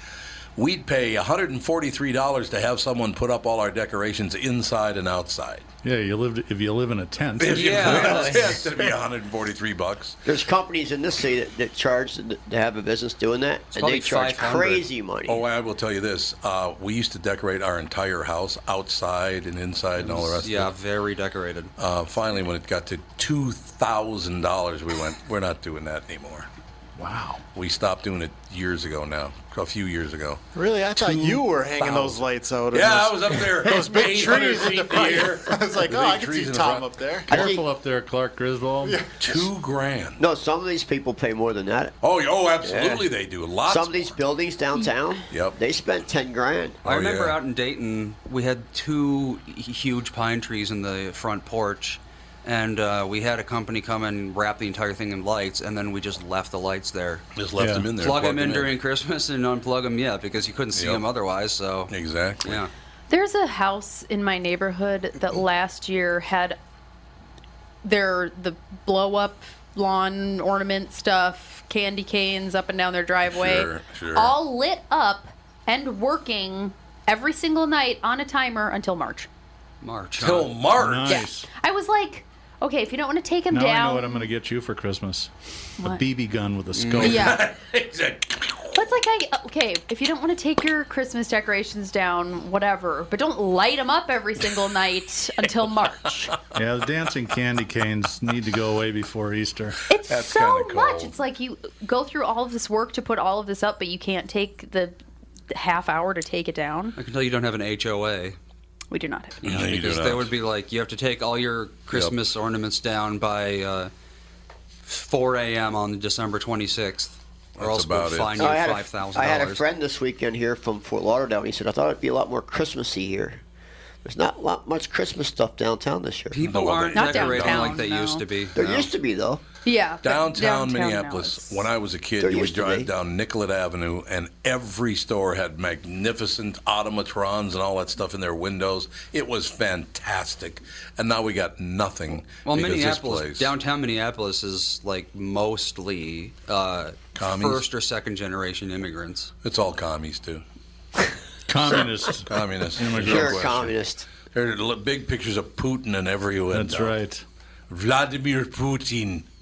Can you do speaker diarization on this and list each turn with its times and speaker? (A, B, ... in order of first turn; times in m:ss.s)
0:00.6-0:05.7 A
0:05.8-0:08.7 B
0:07.4-0:10.2 A
0:07.5-0:08.6 C
0:10.3-0:15.4 D
0:13.7-0:14.9 C
0:15.3-0:20.7 A
0:20.0-0:21.7 C
0:21.8-0:26.5 A
0:27.0-0:27.4 B
0:27.6-0:30.4 A
0:30.5-0:37.4 E
0:31.0-0:36.9 A
0:37.3-0:37.7 D
0:37.3-0:39.0 B
0:38.8-0:39.5 E
0:39.2-0:40.2 A
0:40.2-0:42.0 D
0:42.0-0:44.2 A
0:42.6-0:43.1 D
0:43.7-0:46.8 D
0:45.3-0:45.6 A
0:46.8-0:47.4 A
0:46.8-0:57.3 C
0:57.4-0:58.7 A
0:57.6-0:57.9 B
0:58.0-1:01.9 C
1:00.7-1:01.0 A
1:01.9-1:02.6 A
1:02.4-1:02.7 C
1:03.1-1:06.6 F
1:07.8-1:19.3 F
1:13.2-1:14.4 A
1:19.8-1:20.5 C
1:20.2-1:21.2 A
1:20.8-1:21.5 B
1:21.1-1:24.3 F
1:23.5-1:27.4 B
1:26.8-1:27.2 C
1:26.9-1:28.8 A
1:27.0-1:27.4 F
1:28.7-1:36.4 F
1:36.5-1:39.8 B
1:39.9-1:45.0 F
1:40.1-1:41.1 A
1:45.5-1:47.0 F
1:47.0-1:48.4 C
1:48.9-1:49.4 F
1:49.4-1:50.3 A
1:49.5-1:53.9 C
1:51.9-1:52.2 A
1:54.9-1:59.6 C
1:57.6-1:58.5 A
1:58.4-2:03.4 D
2:04.0-2:06.4 D
2:06.3-2:08.9 C
2:06.4-2:07.8 A
2:07.0-2:08.2 F
2:08.6-2:09.4 D
2:09.6-2:11.6 F
2:10.0-2:23.5 A
2:12.2-2:12.9 D
2:22.4-2:29.3 C
2:27.2-2:27.6 A
2:29.4-2:30.4 A
2:31.5-2:33.5 B
2:32.3-2:33.8 A
2:32.9-2:34.0 D
2:34.3-2:37.0 A
2:36.5-2:37.2 B
2:37.7-2:39.3 A